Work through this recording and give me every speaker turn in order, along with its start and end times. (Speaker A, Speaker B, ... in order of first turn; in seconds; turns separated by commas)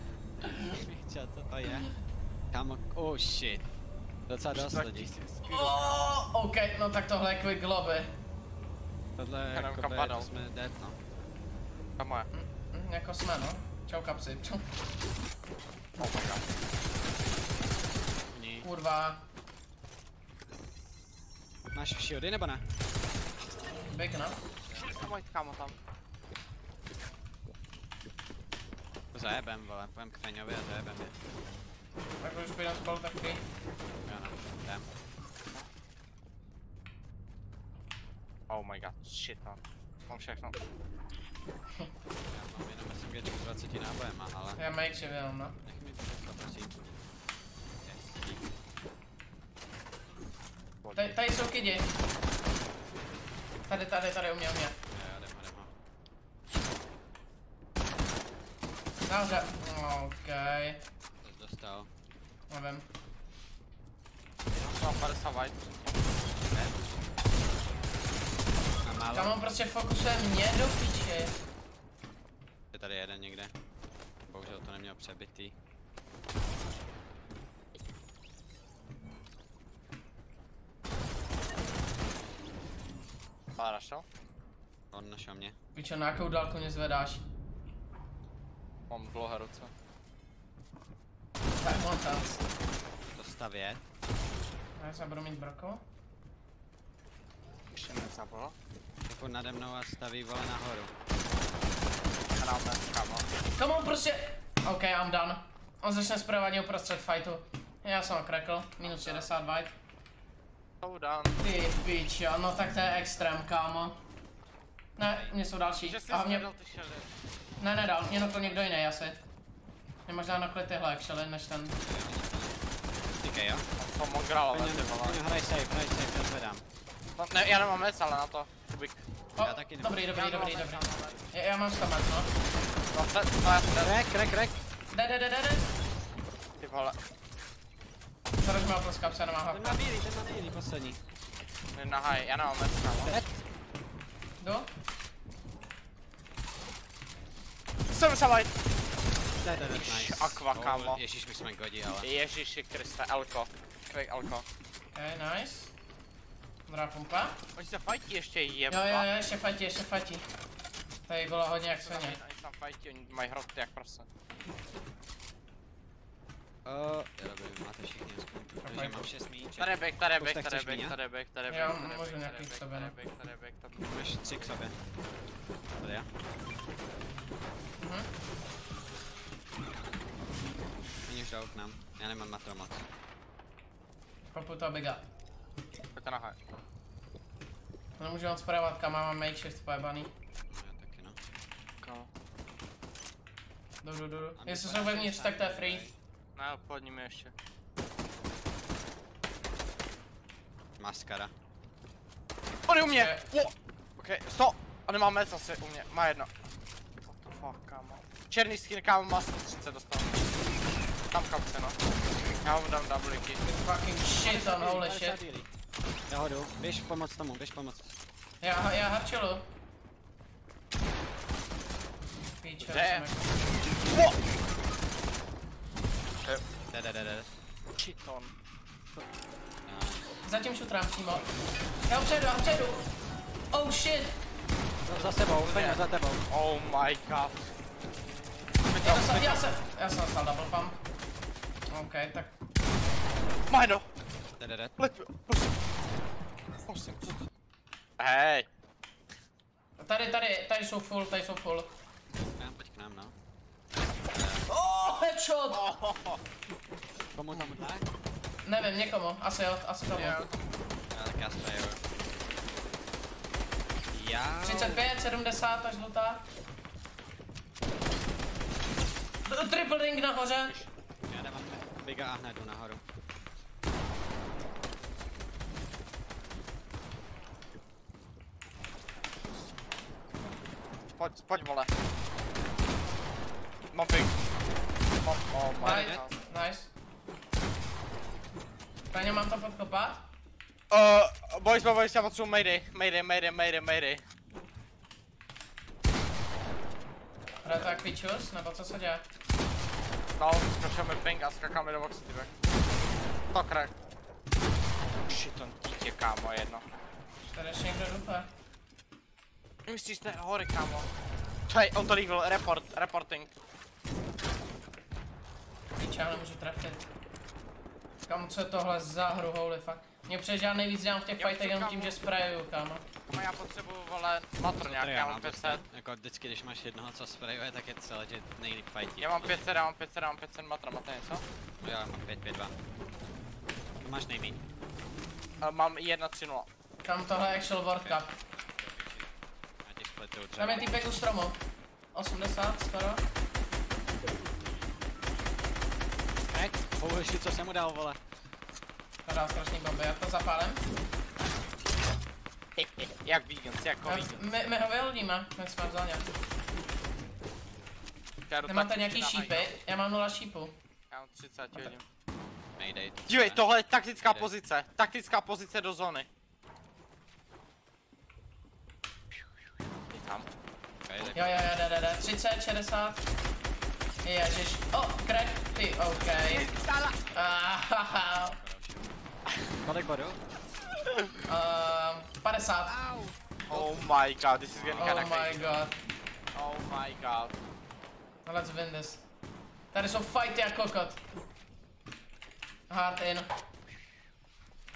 Speaker A: 0.5-0.8, Speaker B: 0.6-1.9, Speaker B: 2.5-3.7, Speaker B: 4.3-5.1, Speaker C: 4.5-6.0, Speaker A: 5.4-8.1, Speaker B: 9.2-11.0, Speaker C: 9.5-10.3, Speaker C: 12.0-12.3, Speaker A: 12.3-14.6, Speaker C: 16.0-16.4, Speaker B: 18.3-18.7, Speaker A: 18.6-19.2, Speaker B: 21.7-22.6, Speaker A: 23.9-24.4, Speaker C: 24.8-25.8, Speaker B: 29.1-31.1, Speaker A: 32.2-33.4, Speaker B: 34.0-34.9, Speaker C: 38.5-40.5, Speaker B: 42.3-44.6, Speaker A: 44.6-45.6, Speaker B: 45.6-46.8, Speaker B: 47.8-48.4, Speaker C: 50.8-51.1, Speaker A: 50.9-51.9, Speaker A: 53.7-54.8, Speaker B: 54.9-55.7, Speaker A: 59.0-60.8, Speaker B: 61.2-61.9, Speaker A: 62.5-62.9, Speaker C: 64.5-66.0, Speaker B: 66.5-67.0, Speaker B: 68.8-69.4, Speaker A: 69.1-71.3, Speaker B: 72.7-73.5, Speaker B: 74.3-75.5, Speaker C: 83.6-84.0, Speaker B: 84.9-85.5, Speaker A: 85.7-87.2, Speaker C: 88.9-89.7, Speaker A: 91.6-92.4, Speaker B: 93.1-93.8, Speaker A: 94.8-95.8, Speaker C: 97.7-98.5, Speaker B: 99.1-100.9, Speaker C: 102.3-103.3, Speaker A: 103.5-109.7, Speaker C: 108.8-109.4, Speaker C: 110.8-111.4, Speaker A: 111.4-114.0, Speaker A: 115.0-116.5, Speaker C: 115.8-117.1, Speaker A: 117.6-119.2, Speaker C: 118.1-118.6, Speaker A: 120.1-121.8, Speaker B: 121.8-122.6, Speaker B: 123.2-123.7, Speaker C: 123.8-125.2, Speaker B: 124.5-126.6, Speaker C: 127.2-129.0, Speaker A: 129.3-132.3, Speaker B: 129.4-130.2, Speaker C: 129.9-131.2, Speaker C: 132.9-134.0, Speaker B: 133.8-134.6, Speaker A: 134.9-135.7, Speaker C: 136.6-136.9, Speaker A: 138.4-139.8, Speaker B: 139.5-141.0, Speaker C: 141.7-143.2, Speaker B: 143.0-143.4, Speaker A: 144.4-144.7, Speaker C: 147.9-148.5, Speaker B: 149.3-152.1, Speaker C: 149.7-151.0, Speaker C: 152.0-154.4, Speaker A: 154.9-155.7, Speaker A: 156.7-157.3, Speaker C: 157.5-159.1, Speaker A: 158.7-160.2, Speaker A: 161.1-162.2, Speaker C: 161.7-164.1, Speaker B: 166.7-170.9, Speaker A: 168.6-169.0, Speaker C: 169.6-174.5, Speaker A: 171.5-172.9, Speaker B: 173.8-174.7, Speaker B: 175.8-176.1, Speaker A: 177.8-178.1, Speaker B: 181.1-182.8, Speaker A: 184.3-185.0, Speaker C: 185.9-186.4, Speaker A: 188.0-190.1, Speaker B: 190.5-191.2, Speaker C: 191.8-192.1, Speaker A: 193.8-195.9, Speaker B: 194.4-195.9, Speaker C: 196.3-197.3, Speaker B: 200.8-201.3, Speaker C: 202.7-206.3, Speaker A: 202.9-203.2, Speaker C: 207.1-210.1, Speaker C: 211.1-211.8, Speaker C: 212.4-213.4, Speaker A: 213.4-215.2, Speaker B: 214.1-215.5, Speaker B: 216.1-217.9, Speaker A: 218.4-219.4, Speaker A: 222.4-223.3, Speaker C: 222.6-223.0, Speaker C: 223.9-224.1, Speaker B: 226.7-227.3, Speaker C: 227.8-228.3, Speaker B: 229.6-230.2, Speaker A: 230.2-231.3, Speaker A: 231.9-232.8, Speaker A: 233.5-234.2, Speaker B: 234.8-236.3, Speaker C: 235.4-237.5, Speaker C: 238.6-239.4, Speaker A: 238.8-240.8, Speaker A: 241.7-242.3, Speaker C: 243.5-243.8, Speaker B: 244.4-244.8, Speaker C: 244.8-245.5, Speaker C: 246.7-247.2, Speaker C: 248.0-248.5, Speaker A: 249.8-251.7, Speaker B: 252.3-253.1, Speaker B: 254.1-254.5, Speaker A: 254.5-255.6, Speaker C: 255.5-256.2, Speaker B: 257.1-257.9, Speaker A: 258.4-260.2, Speaker C: 259.9-260.5, Speaker B: 260.9-261.8, Speaker B: 263.9-264.9, Speaker A: 264.4-266.2, Speaker A: 269.2-270.5, Speaker B: 271.1-272.8, Speaker C: 281.0-281.7, Speaker C: 283.7-284.1, Speaker C: 285.0-286.1, Speaker A: 285.5-286.7, Speaker B: 285.6-286.0, Speaker A: 288.9-290.0, Speaker C: 290.7-294.0, Speaker A: 297.4-299.0, Speaker C: 300.2-302.3, Speaker C: 303.3-303.7, Speaker C: 305.1-306.6, Speaker A: 307.2-308.3, Speaker C: 309.6-310.9, Speaker C: 311.5-313.3, Speaker A: 315.8-316.9, Speaker A: 318.1-322.8, Speaker C: 321.2-322.0, Speaker C: 323.1-325.6, Speaker B: 324.6-329.4, Speaker C: 329.0-331.2, Speaker B: 331.6-332.6, Speaker B: 333.8-334.4, Speaker C: 335.4-336.5, Speaker A: 336.8-338.1, Speaker B: 337.6-339.1, Speaker B: 339.6-341.0, Speaker A: 340.4-341.4, Speaker A: 341.9-343.0, Speaker B: 346.3-348.0, Speaker A: 349.0-350.6, Speaker C: 352.6-354.2, Speaker A: 353.8-356.1, Speaker C: 358.3-359.5, Speaker A: 358.5-360.5, Speaker C: 360.9-361.8, Speaker B: 362.6-363.4, Speaker C: 363.1-366.1, Speaker B: 364.1-364.3, Speaker C: 369.9-370.3, Speaker B: 370.9-371.6, Speaker A: 371.1-373.0, Speaker A: 374.0-376.5, Speaker B: 375.4-378.9, Speaker C: 376.2-377.0, Speaker A: 377.1-378.4, Speaker B: 379.6-380.2, Speaker A: 381.3-382.8, Speaker B: 382.6-385.7, Speaker C: 383.5-385.6, Speaker A: 384.8-385.8, Speaker C: 386.3-387.3, Speaker A: 388.2-389.0, Speaker A: 389.7-391.0, Speaker A: 392.7-393.3